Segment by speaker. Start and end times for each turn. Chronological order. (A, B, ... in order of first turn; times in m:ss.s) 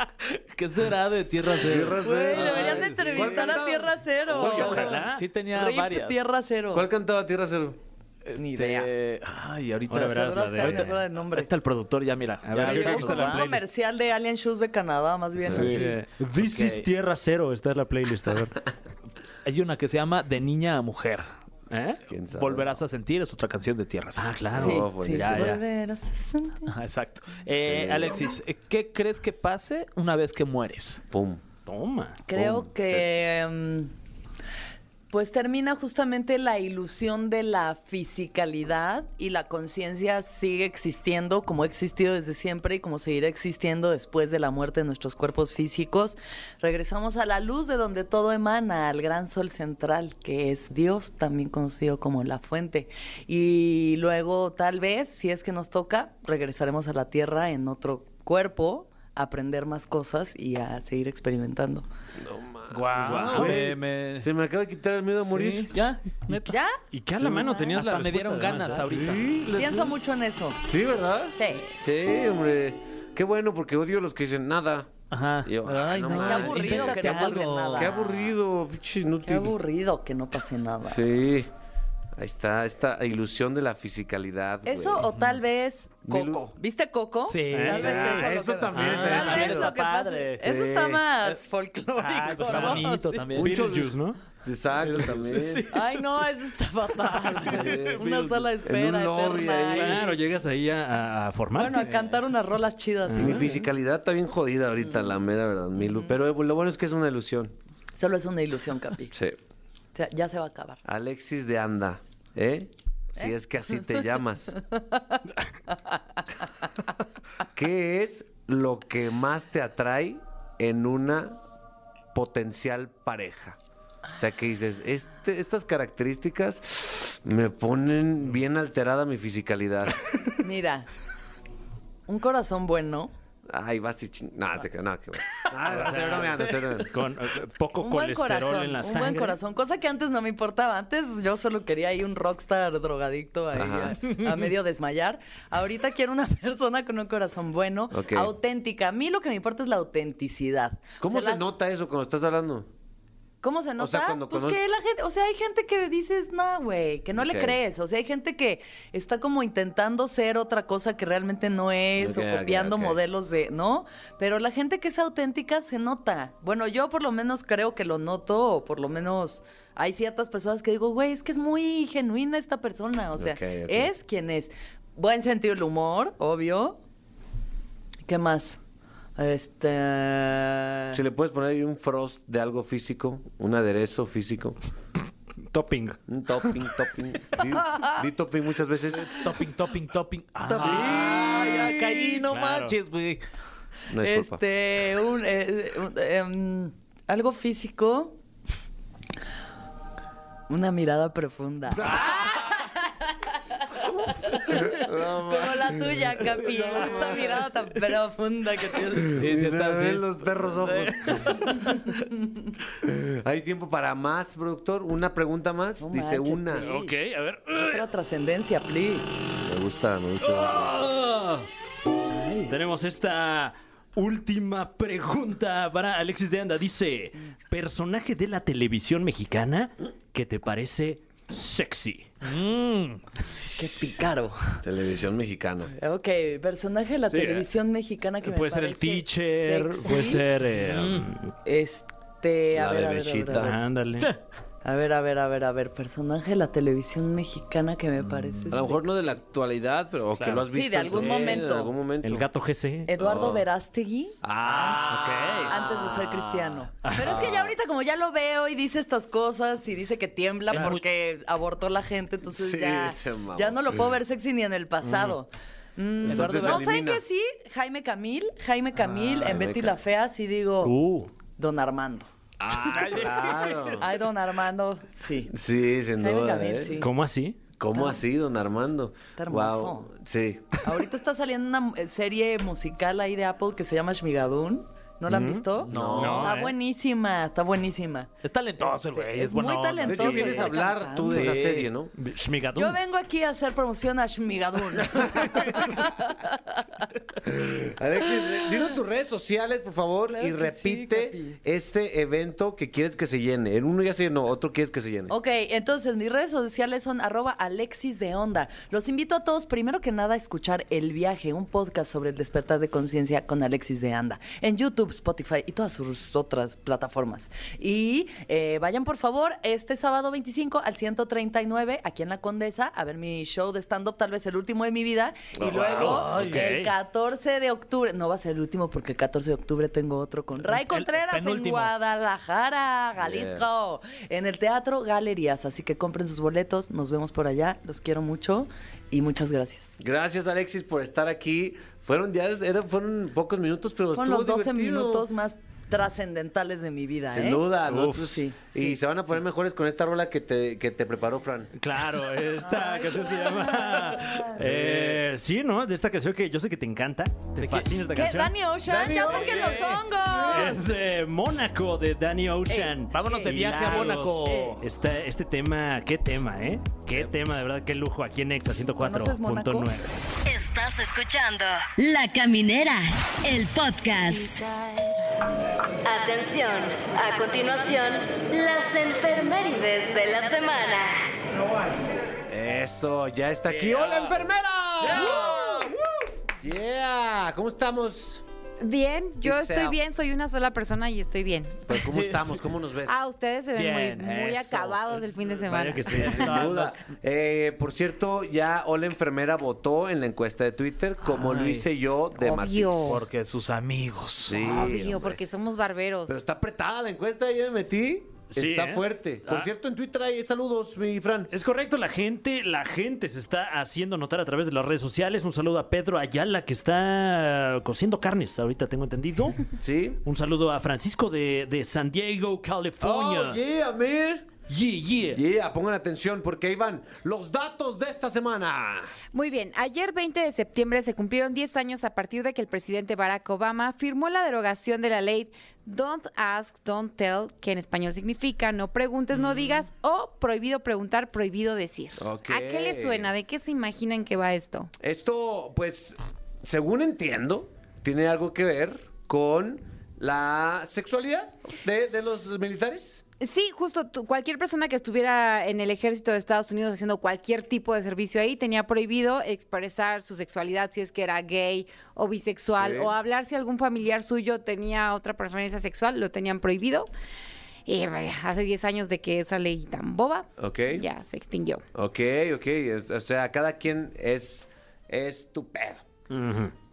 0:00.3-0:03.6 A
0:01.6-0:05.0 B
0:02.0-0:06.9 C
0:04.4-0:05.2 D
0:04.4-0:06.2 A
0:06.7-0:07.8 B
0:08.3-0:13.5 A
0:08.4-0:08.9 C
0:09.9-0:11.0 D
0:10.0-0:11.5 C
0:12.4-0:13.6 D
0:12.6-0:16.0 C
0:15.5-0:15.8 B
0:15.5-0:18.6 D
0:16.5-0:16.8 A
0:19.4-0:21.3 A
0:21.7-0:22.0 D
0:22.1-0:22.8 B
0:22.3-0:24.3 A
0:24.2-0:25.6 D
0:24.5-0:25.6 B
0:24.6-0:26.7 C
0:26.7-0:31.0 A
0:27.6-0:28.3 B
0:31.1-0:31.4 B
0:31.7-0:32.2 D
0:32.3-0:33.9 C
0:32.3-0:33.1 B
0:35.1-1:01.9 C
1:02.2-1:05.8 B
1:02.7-1:04.3 A
1:03.0-1:03.8 D
1:05.2-1:06.5 A
1:06.3-1:08.9 D
1:06.4-1:07.8 C
1:07.7-1:09.2 A
1:08.9-1:10.0 B
1:09.5-1:10.6 C
1:10.6-1:19.5 B
1:11.4-1:11.7 C
1:15.1-1:17.9 A
1:16.1-1:18.3 C
1:19.2-1:21.0 C
1:20.9-1:21.5 B
1:22.2-1:25.1 B
1:24.6-1:33.3 C
1:26.1-1:26.5 B
1:27.3-1:30.4 A
1:27.5-1:28.3 D
1:27.9-1:29.7 B
1:28.8-1:29.2 D
1:30.4-1:31.0 B
1:32.0-1:33.6 A
1:32.4-1:34.2 D
1:33.4-1:35.7 B
1:34.9-1:35.8 A
1:35.7-1:40.1 C
1:37.3-1:38.4 A
1:37.5-1:38.1 B
1:38.6-1:40.1 B
1:39.7-1:41.9 D
1:41.6-1:43.6 C
1:43.1-1:43.4 D
1:43.2-1:47.6 B
1:45.8-1:46.2 C
1:48.0-1:49.1 C
1:49.1-1:49.4 B
1:50.0-1:50.8 C
1:50.8-1:54.6 B
1:54.8-1:56.0 C
1:57.6-2:01.4 B
2:02.1-2:03.6 B
2:04.2-2:10.1 B
2:10.4-2:10.9 C
2:12.1-2:13.1 C
2:13.5-2:17.0 B
2:15.7-2:19.4 D
2:17.8-2:31.4 C
2:23.5-2:24.2 B
2:27.9-2:28.3 B
2:31.0-2:32.7 B
2:33.4-2:56.8 C
2:33.8-2:34.6 B
2:37.2-2:37.6 B
2:42.0-2:43.0 B
2:53.2-2:53.9 B
2:58.1-2:58.6 C
2:59.2-3:01.0 C
3:00.9-3:04.6 B
3:05.5-3:06.0 D
3:06.1-3:09.2 B
3:07.7-3:07.9 C
3:09.1-3:13.2 A
3:10.6-3:12.1 B
3:10.6-3:11.5 D
3:12.2-3:12.8 D
3:13.9-3:14.4 B
3:14.0-3:18.2 C
3:20.5-3:29.2 C
3:21.8-3:22.2 B
3:24.5-3:27.5 B
3:29.1-3:31.4 B
3:29.1-3:31.5 A
3:32.8-3:36.7 B
3:35.8-3:37.0 C
3:36.6-3:37.8 D
3:37.6-3:39.2 C
3:39.4-3:40.7 B
3:40.2-3:41.5 D
3:42.1-3:42.7 C
3:42.5-3:52.1 D
3:52.2-3:53.0 A
3:53.6-3:54.6 C
3:54.6-3:55.7 B
3:55.8-4:00.3 C
3:57.1-3:57.5 D
3:58.2-4:01.3 D
4:00.6-4:01.1 A
4:01.4-4:03.6 C
4:02.5-4:03.6 B
4:03.4-4:04.1 D
4:04.6-4:09.2 C
4:08.5-4:12.3 B
4:10.2-4:10.4 D
4:10.5-4:11.7 C
4:12.0-4:12.9 D
4:12.9-4:30.8 C
4:13.0-4:13.4 B
4:14.2-4:15.0 B
4:14.5-4:15.6 A
4:14.6-4:15.7 D
4:15.6-4:16.1 B
4:16.8-4:17.2 D
4:17.0-4:17.5 B
4:20.5-4:20.8 A
4:22.3-4:23.9 B
4:24.8-4:25.2 D
4:26.0-4:27.0 B
4:26.1-4:26.6 A
4:29.2-4:29.8 B
4:30.6-4:31.1 D
4:31.4-4:32.1 C
4:32.4-4:33.9 B
4:32.7-4:33.7 A
4:33.8-4:35.3 C
4:35.3-4:36.8 B
4:36.0-4:36.9 C
4:36.8-4:37.4 D
4:37.6-4:40.6 B
4:37.7-4:38.0 C
4:39.2-4:39.9 C
4:40.6-4:51.4 C
4:45.1-4:46.5 D
4:45.6-4:46.3 A
4:45.7-4:46.3 B
4:48.2-4:51.7 A
4:49.9-4:51.9 B
4:52.0-4:52.8 D
4:52.5-4:56.7 C
4:57.2-5:05.1 B
5:00.1-5:01.4 C
5:05.1-5:39.7 C
5:25.3-5:26.2 B
5:25.6-5:26.4 A
5:26.0-5:26.7 D
5:30.5-5:31.7 A
5:33.0-5:33.5 B
5:39.8-5:45.1 B
5:43.9-5:48.8 C
5:47.1-5:51.5 B
5:47.7-5:48.0 D
5:51.6-5:59.2 D
5:52.4-5:54.4 C
5:57.4-5:58.0 A
5:57.9-6:00.6 C
5:58.7-5:59.8 A
6:00.2-6:09.9 D
6:02.5-6:04.6 C
6:02.9-6:04.6 A
6:08.8-6:09.8 C
6:10.2-6:14.3 E
6:15.8-6:21.1 E
6:21.4-6:25.4 B
6:23.6-6:24.1 A
6:24.8-6:25.8 A
6:26.4-6:28.2 B
6:28.6-6:31.6 F
6:29.2-6:29.8 B
6:31.7-6:33.0 B
6:31.8-6:32.4 A
6:32.9-6:36.2 F
6:33.6-6:34.1 A
6:34.0-6:34.7 D
6:34.3-6:34.8 B
6:35.4-6:36.5 D
6:35.9-6:43.1 B
6:36.0-6:36.7 A
6:41.0-6:41.7 A
6:42.1-6:43.1 F
6:42.8-6:44.7 A
6:44.2-6:45.2 B
6:44.4-6:46.2 F
6:46.1-6:51.3 B
6:48.3-6:49.5 D
6:51.3-6:59.4 D
6:59.6-7:00.0 B
7:00.0-7:03.4 D
7:02.8-7:04.4 B
7:04.5-7:05.2 D
7:05.1-7:08.9 B
7:09.1-7:24.7 F
7:22.0-7:23.1 B
7:24.8-7:33.0 B
7:33.2-7:46.9 F
7:42.5-7:42.9 B
7:47.7-7:51.6 F
7:50.4-7:50.9 B
7:51.8-7:55.9 B
7:56.1-7:56.5 D